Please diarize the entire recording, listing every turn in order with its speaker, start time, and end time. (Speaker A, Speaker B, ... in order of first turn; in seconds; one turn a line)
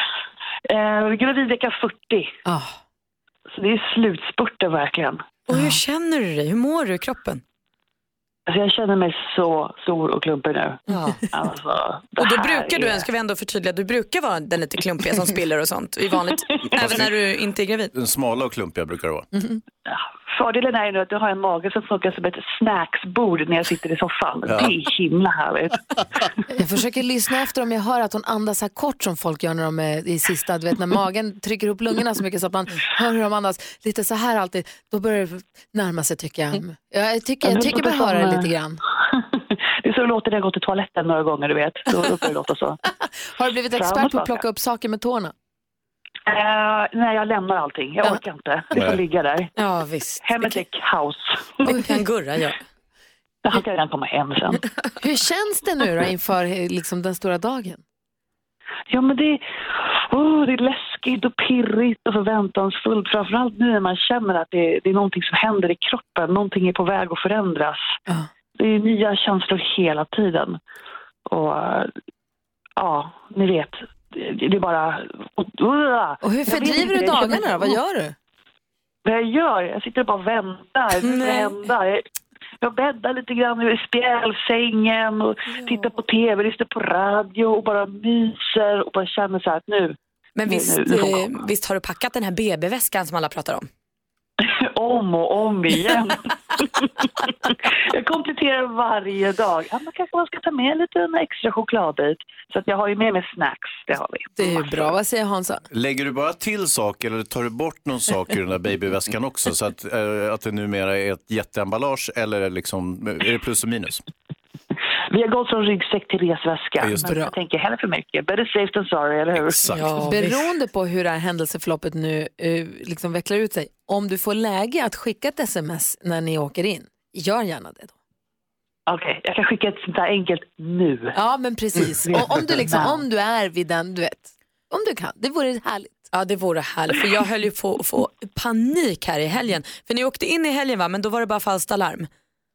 Speaker A: 0.7-2.3
Speaker B: 2.5-2.8
Speaker A: 3.5-5.2
Speaker C: 5.5-7.4
Speaker A: 8.5-10.8
Speaker C: 10.9-11.2
Speaker A: 11.3-13.1
Speaker C: 12.2-17.9
Speaker D: 16.7-17.1
Speaker D: 17.9-19.2
Speaker B: 19.3-19.6
Speaker A: 20.3-25.8
Speaker D: 24.5-24.7
Speaker B: 26.5-38.8
Speaker A: 37.4-38.5
Speaker A: 39.2-42.8
Speaker B: 43.3-45.3
Speaker A: 43.7-44.4
Speaker A: 46.3-49.5
Speaker D: 48.7-49.0
Speaker C: 49.5-50.6
Speaker A: 50.2-51.6
Speaker C: 51.6-52.6
Speaker A: 53.4-54.6
Speaker B: 55.0-57.8
Speaker A: 58.9-67.8
Speaker A: 68.6-70.6
Speaker A: 71.3-71.9
Speaker A: 72.8-77.8
Speaker B: 76.2-78.1
Speaker A: 79.0-82.0
Speaker C: 81.0-81.6
Speaker A: 82.6-91.3
Speaker C: 90.3-93.7
Speaker A: 94.5-104.9
Speaker B: 104.4-105.6
Speaker D: 105.7-114.0
Speaker A: 115.1-119.8
Speaker D: 116.8-117.1
Speaker B: 116.9-117.3
Speaker D: 119.3-119.8
Speaker C: 119.7-120.5
Speaker B: 119.9-127.9
Speaker A: 128.9-131.1
Speaker B: 131.1-136.0
Speaker A: 132.6-132.9
Speaker C: 136.1-142.1